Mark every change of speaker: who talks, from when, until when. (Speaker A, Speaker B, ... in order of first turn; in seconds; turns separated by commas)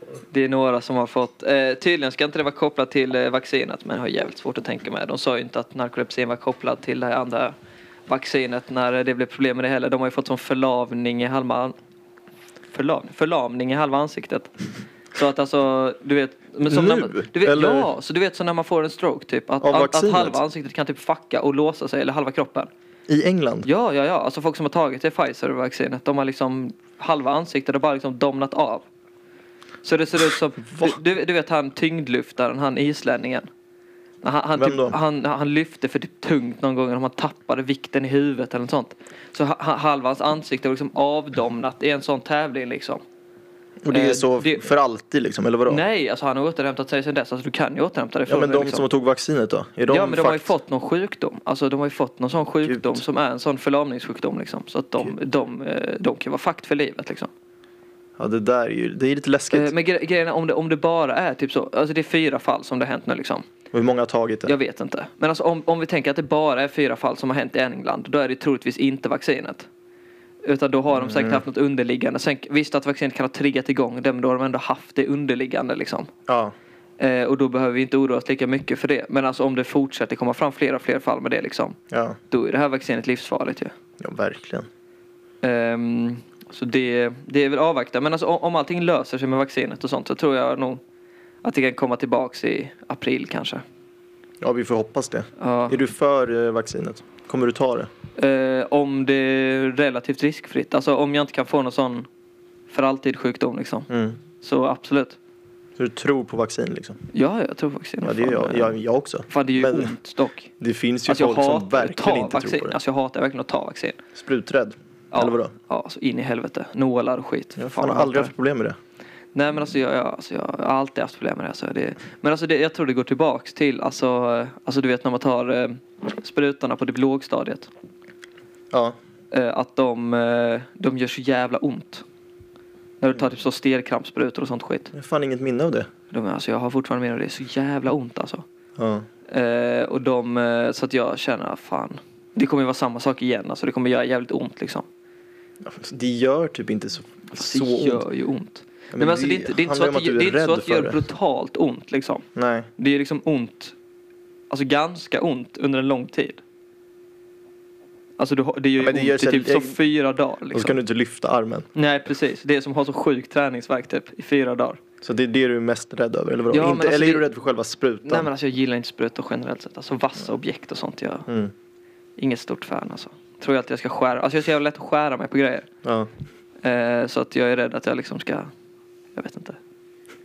Speaker A: 0.3-7.5, Speaker A: 8.1-11.8, Speaker A: 12.7-14.5, Speaker A: 15.1-22.7, Speaker B: 16.6-17.9, Speaker B: 19.6-20.4, Speaker B: 23.1-23.7, Speaker A: 23.6-28.9, Speaker A: 29.8-33.5, Speaker B: 30.7-31.0, Speaker A: 34.2-43.0, Speaker B: 34.6-35.0, Speaker B: 43.8-45.8, Speaker A: 43.9-44.7, Speaker A: 45.7-48.8, Speaker B: 48.3-50.5, Speaker A: 49.9-57.3, Speaker B: 52.6-53.0, Speaker B: 58.2-59.7, Speaker A: 59.5-63.5, Speaker B: 63.7-64.5, Speaker A: 64.5-69.7, Speaker A: 70.4-76.1, Speaker B: 70.9-71.4, Speaker B: 76.3-76.5, Speaker A: 77.0-81.8, Speaker B: 81.9-82.2, Speaker A: 82.3-83.7, Speaker B: 84.0-84.7, Speaker A: 85.4-90.8, Speaker A: 91.4-93.6, Speaker B: 94.4-97.9, Speaker A: 95.4-95.8, Speaker A: 98.2-102.1, Speaker A: 102.7-105.2, Speaker B: 103.9-104.2, Speaker B: 105.8-107.0, Speaker A: 107.1-108.8, Speaker B: 108.0-109.9, Speaker A: 109.3-110.5, Speaker B: 110.6-112.8, Speaker A: 111.1-114.0, Speaker B: 114.1-115.5, Speaker A: 115.1-118.3, Speaker B: 117.6-118.8, Speaker A: 119.3-127.7, Speaker B: 128.7-129.0, Speaker A: 129.3-132.0, Speaker A: 133.0-134.9, Speaker B: 134.9-135.9, Speaker A: 136.1-138.4, Speaker B: 138.8-139.0, Speaker A: 139.3-144.8, Speaker B: 145.6-148.0, Speaker A: 147.3-152.2, Speaker B: 148.9-151.0, Speaker B: 152.3-152.7, Speaker A: 152.8-153.8, Speaker A: 154.5-156.4, Speaker A: 158.2-160.8, Speaker B: 158.8-159.8, Speaker B: 160.5-161.7, Speaker A: 161.8-164.8, Speaker B: 165.0-168.3, Speaker A: 166.5-167.2, Speaker A: 168.0-171.3, Speaker B: 171.3-171.5, Speaker A: 172.2-175.7, Speaker B: 175.8-176.1, Speaker A: 176.6-178.5, Speaker A: 179.2-179.6